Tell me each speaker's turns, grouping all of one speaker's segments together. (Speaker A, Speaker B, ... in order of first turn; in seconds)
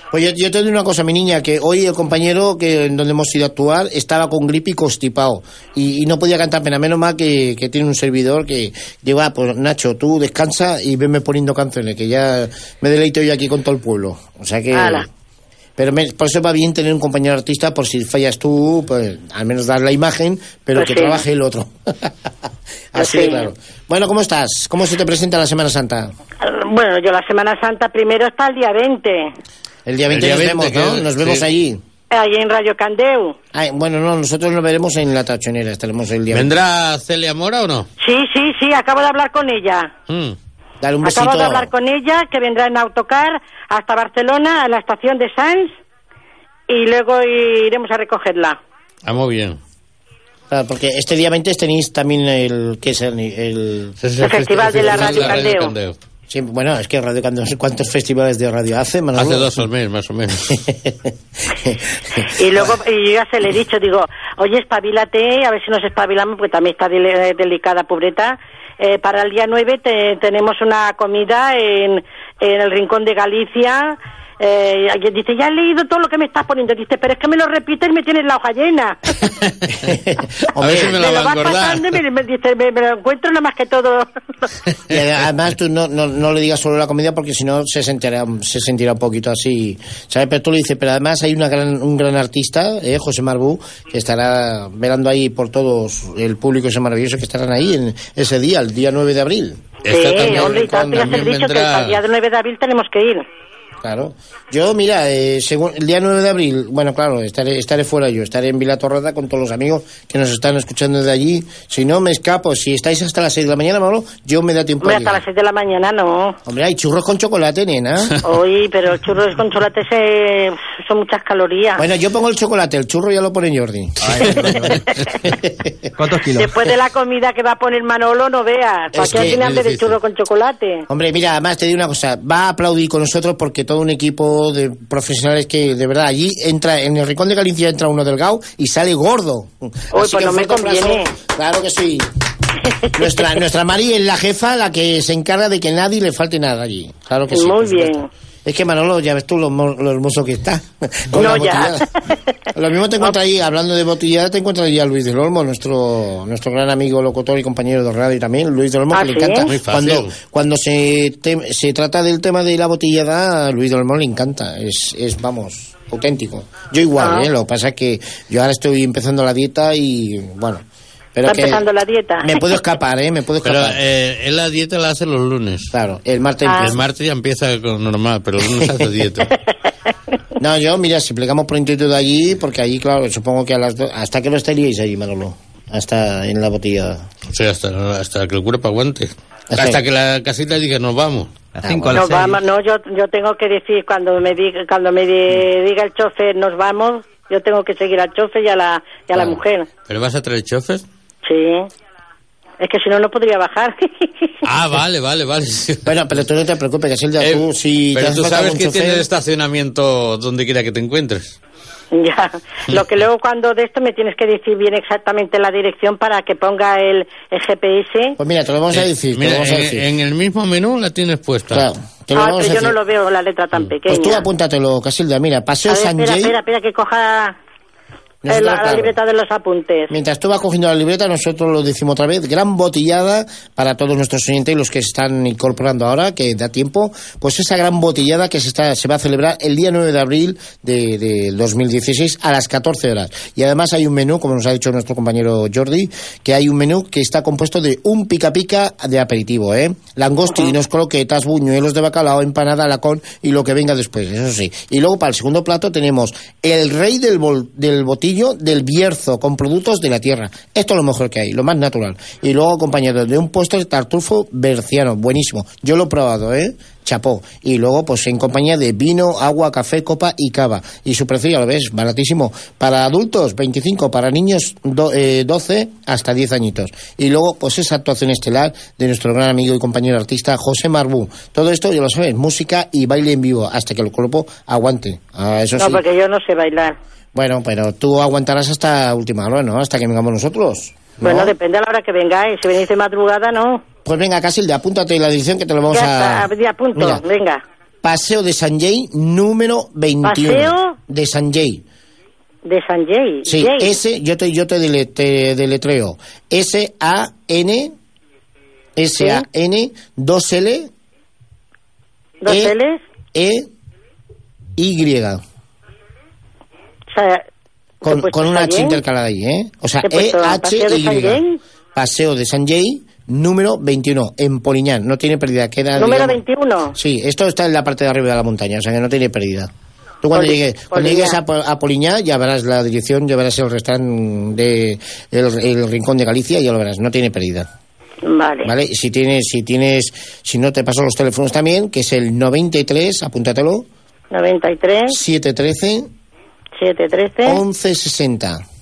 Speaker A: 0.1-15.1, 15.8-22.1, 22.9-26.1, 29.9-31.8, 33.5-36.5, 40.8-41.7, 50.5-55.5, 56.3-59.6, 60.5-61.0, 61.6-62.7, 79.8-81.1, 84.9-101.2, 103.8-115.2, 116.5-118.2, 121.8-124.3, 128.9-129.5, 130.9-142.1, 142.9-151.8, 152.5-170.6, 171.1-171.6, 172.2-173.8, 175.7-176.8, 178.5-178.8, 180.4-187.0, 189.5-189.8, 191.6-192.1, 205.8-209.1, 218.2-219.8, 221.5-222.8, 223.9-226.4, 228.2-228.9, 229.9-285.8, 287.1-291.4, 293.8-297.0, 297.8-301.6, 303.2-307.7, 308.8-310.7, 312.3-312.6, 313.1-313.5, 314.6-315.2, 317.8-321.2, 321.7-326.2, 326.7-329.5, 330.0-337.5, 338.4-343.6, 344.9-345.9, 347.2-348.4
Speaker B: 14.7-15.1, 20.8-21.2, 23.0-23.5, 26.4-29.3, 32.1-33.4, 38.0-39.9, 41.0-45.7, 46.7-48.6, 54.2-55.7, 62.4-79.0, 80.8-84.1, 99.9-103.2, 114.8-116.4, 118.2-121.8, 126.4-130.8, 139.9-141.1, 143.0-143.2, 147.3-148.1, 151.1-151.8, 158.9-159.5, 167.0-167.3, 171.3-172.5, 176.4-176.8, 191.9-199.7, 201.2-201.7, 202.6-204.3, 211.9-218.2, 222.1-224.3, 225.7-227.3, 228.3-229.9, 285.6-286.8, 291.0-293.6, 295.7-297.4, 300.0-300.7, 302.4-303.7, 312.2-312.8, 316.9-317.2, 317.8-318.8, 319.8-321.4, 325.8-326.8, 330.1-331.2, 338.1-338.5, 344.1-344.9, 346.6-347.4
Speaker C: 30.1-31.4, 36.3-37.9, 40.1-40.4, 49.0-49.6, 54.0-56.0, 59.2-60.5, 79.4-79.7, 80.6-82.0, 99.8-102.0, 129.0-129.9, 159.5-160.1, 173.4-175.7, 176.6-179.3, 187.3-191.3, 199.9-200.8, 204.4-205.9, 207.2-211.4, 218.7-221.7
Speaker D: 124.0-124.8, 126.0-126.6, 191.6-192.4